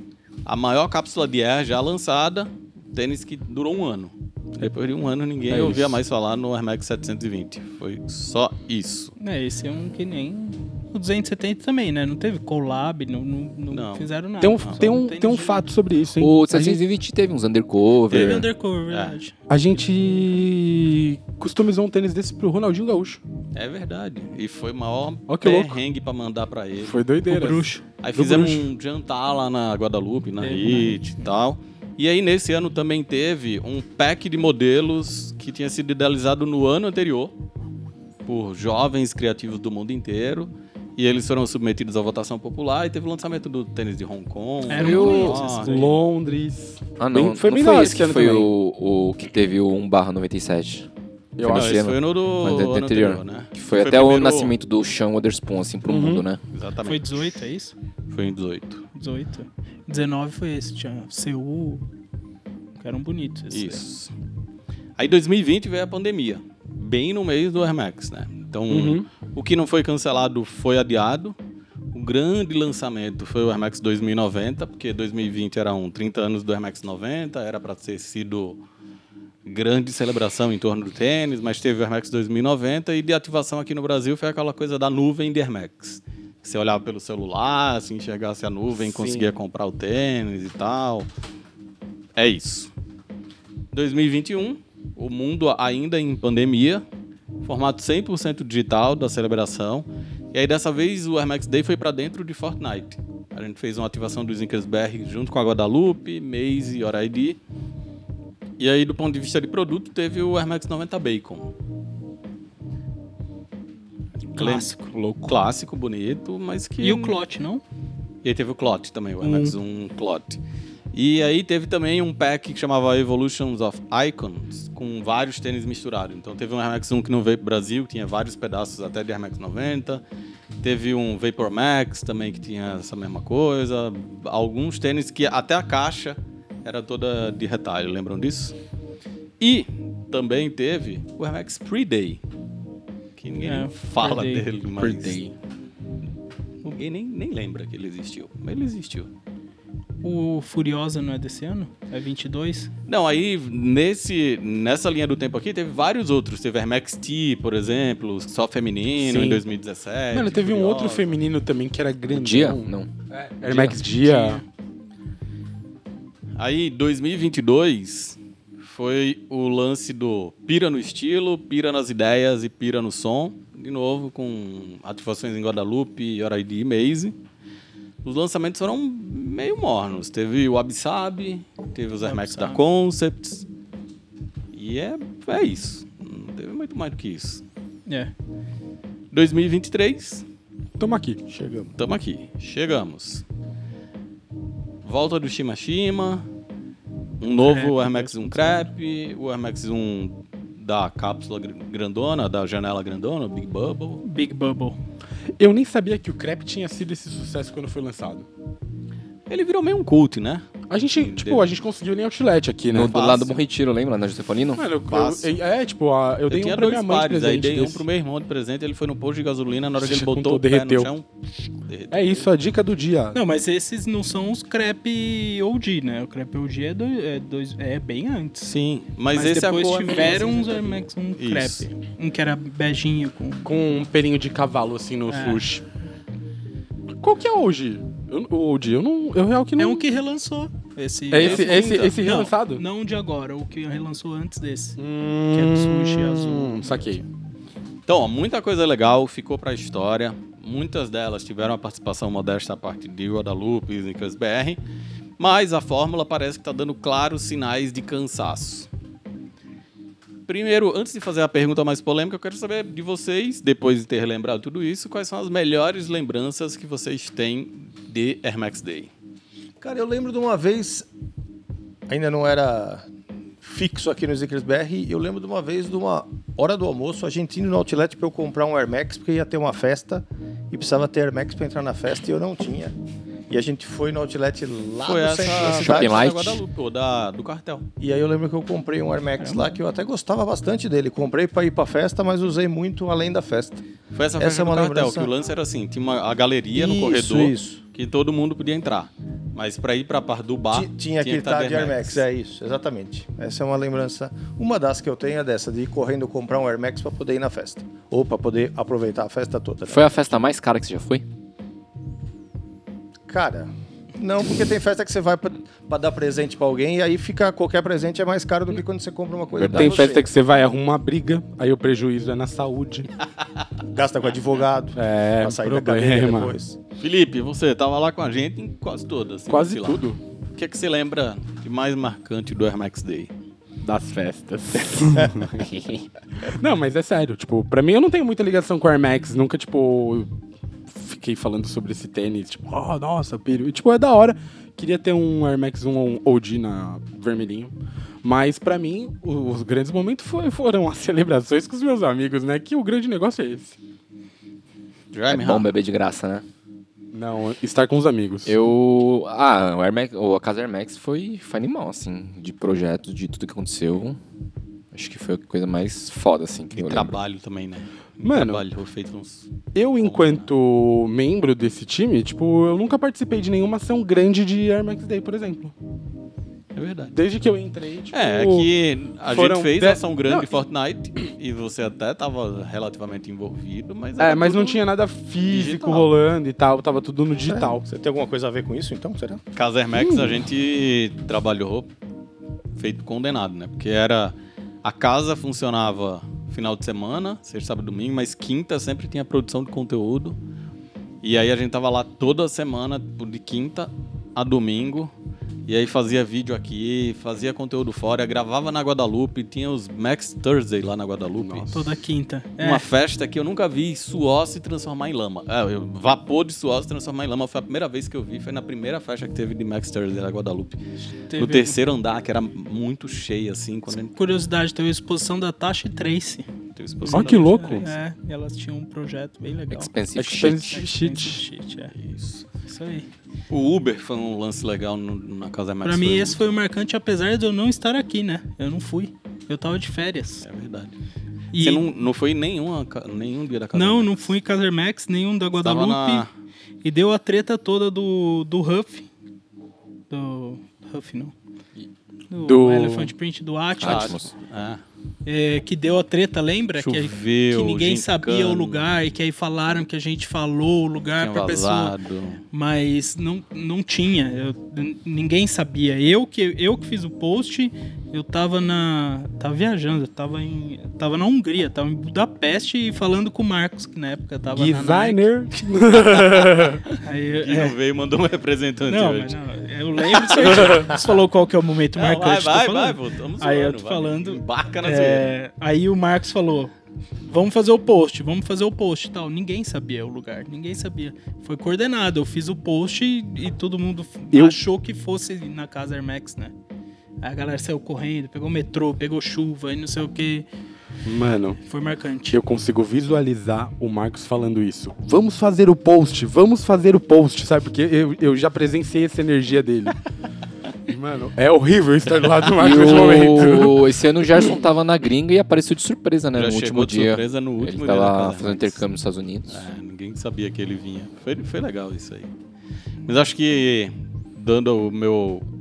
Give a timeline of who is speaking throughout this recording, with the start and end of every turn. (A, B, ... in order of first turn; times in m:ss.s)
0:00.4-0:09.1 A
0:05.5-0:06.0 B
0:09.2-0:15.6 C
0:13.7-0:14.1 A
0:14.4-0:16.8 B
0:16.2-0:18.5 D
0:18.1-0:19.2 A
0:18.1-0:20.2 C
0:19.5-0:23.2 B
0:23.5-0:27.0 A
0:25.3-0:25.8 B
0:26.8-0:28.7 B
0:27.2-0:27.8 C
0:28.0-0:37.3 A
0:30.4-0:31.3 C
0:38.2-0:45.9 A
0:44.7-0:46.0 C
0:44.8-0:45.4 D
0:44.8-0:48.5 B
0:47.0-0:50.9 D
0:51.4-0:51.8 B
0:51.4-0:56.4 D
0:51.5-0:54.5 A
0:55.9-0:56.3 B
0:56.5-0:57.2 A
0:56.8-0:57.7 C
0:58.1-0:58.8 A
0:58.9-1:01.8 C
1:02.8-1:03.8 C
1:03.5-1:04.1 A
1:05.0-1:11.3 A
1:08.7-1:09.1 B
1:11.9-1:18.6 A
1:19.4-1:31.1 A
1:28.8-1:29.3 B
1:32.2-1:32.7 A
1:33.7-1:36.8 A
1:37.4-1:47.4 A
1:48.6-1:51.5 A
1:54.3-1:57.2 A
1:54.4-1:54.9 C
1:54.9-1:55.4 B
1:56.8-1:57.6 C
1:58.2-2:00.4 A
1:59.2-1:59.6 C
2:00.9-2:10.0 A
2:10.6-2:18.5 A
2:19.4-2:22.2 A
2:23.2-2:25.2 A
2:23.4-2:24.4 C
2:24.6-2:25.3 B
2:26.6-2:29.1 A
2:30.0-2:32.7 C
2:32.9-2:41.1 A
2:39.0-2:39.4 B
2:40.1-2:44.4 B
2:42.1-2:42.9 D
2:43.4-2:43.8 D
2:44.0-2:44.4 C
2:46.4-2:57.2 A
2:58.0-3:03.4 A
3:02.0-3:02.6 C
3:04.5-3:07.4 A
3:07.9-3:08.1 C
3:09.1-3:10.2 A
3:10.8-3:11.2 B
3:11.3-3:11.7 E
3:11.8-3:13.2 A
3:14.8-3:16.2 A
3:17.2-3:24.0 A
3:17.4-3:18.7 C
3:24.0-3:24.8 C
3:25.4-3:28.3 B
3:29.3-3:31.5 A
3:30.7-3:33.0 B
3:32.7-3:34.6 D
3:32.8-3:33.3 A
3:34.6-3:37.8 B
3:34.9-3:35.3 A
3:36.3-3:41.0 A
3:39.8-3:40.9 B
3:41.6-3:42.3 A
3:41.9-3:43.2 B
3:43.1-3:48.5 C
3:48.4-3:51.7 A
3:49.1-3:53.6 C
3:53.4-3:55.6 B
3:55.1-3:55.4 C
3:57.0-3:59.8 B
3:59.6-4:04.8 C
4:01.1-4:02.6 B
4:01.2-4:01.9 A
4:04.8-4:07.0 B
4:05.3-4:07.0 C
4:07.9-4:14.6 A
4:15.2-4:18.7 A
4:20.3-4:28.9 A
4:29.6-4:30.9 E
4:31.9-4:32.8 E
4:33.4-4:42.7 E
4:43.3-4:46.0 E
4:44.8-4:47.7 A
4:45.3-4:46.4 D
4:47.8-4:53.6 E
4:49.2-4:49.4 C
4:53.9-5:02.0 A
4:54.2-4:55.1 E
4:56.5-4:57.6 E
5:00.5-5:10.2 E
5:09.7-5:11.0 D
5:13.1-5:20.1 E
5:19.3-5:19.9 D
5:19.4-5:22.9 B
5:23.7-5:26.6 E
5:24.8-5:26.4 B
5:26.8-5:29.8 A
5:29.3-5:30.0 B
5:30.4-5:33.1 A
5:33.6-5:40.1 B
5:40.7-5:53.6 B
5:54.9-5:55.5 A
5:55.1-5:56.2 D
5:56.9-5:58.3 B
5:58.2-6:04.0 D
6:04.7-6:07.0 D
6:06.5-6:10.3 A
6:08.0-6:08.4 B
6:09.5-6:15.5 B
6:16.5-6:16.9 A
6:16.9-6:18.5 B
6:17.9-6:24.6 A
6:19.1-6:20.3 B
6:24.0-6:27.6 B
6:25.3-6:25.9 A
6:27.2-6:29.2 E
6:29.3-6:31.7 A
6:29.8-6:30.2 B
6:32.6-6:40.2 A
6:41.0-6:44.9 A
6:45.5-6:51.6 A
6:51.2-6:51.5 B
6:51.5-6:52.6 C
6:52.4-7:00.6 A
7:01.1-7:01.6 C
7:01.2-7:04.0 A
7:03.9-7:06.3 C
7:06.6-7:07.7 A
7:06.8-7:09.7 C
7:06.9-7:07.7 B
7:09.5-7:10.5 D
7:10.0-7:11.2 B
7:10.2-7:11.7 C
7:11.7-7:12.2 A
7:12.4-7:12.9 C
7:13.3-7:16.3 A
7:15.6-7:20.2 C
7:20.2-7:20.8 A
7:21.3-7:21.6 C
7:21.4-7:24.1 A
7:23.5-7:26.1 C
7:25.4-7:26.1 A
7:26.6-7:28.9 C
7:29.9-7:31.1 C
7:32.1-7:34.1 C
7:32.2-7:32.9 B
7:33.6-7:34.0 D
7:33.6-7:34.6 A
7:35.0-7:41.7 C
7:36.6-7:38.6 A
7:41.0-7:42.2 A
7:42.3-7:55.0 C
7:54.3-7:56.6 B
7:56.0-7:56.4 A
7:56.8-7:57.5 C
7:57.2-7:59.2 A
7:58.7-8:06.5 C
7:59.8-8:00.8 A
8:00.3-8:00.6 B
8:01.7-8:05.1 A
8:07.1-8:16.3 C
8:14.1-8:14.4 B
8:17.0-8:20.2 C
8:20.8-8:21.4 B
8:21.4-8:22.2 C
8:22.1-8:29.8 B
8:30.7-8:33.7 B
8:32.4-8:39.4 D
8:36.2-8:38.6 A
8:39.3-8:42.1 A
8:42.8-8:45.2 A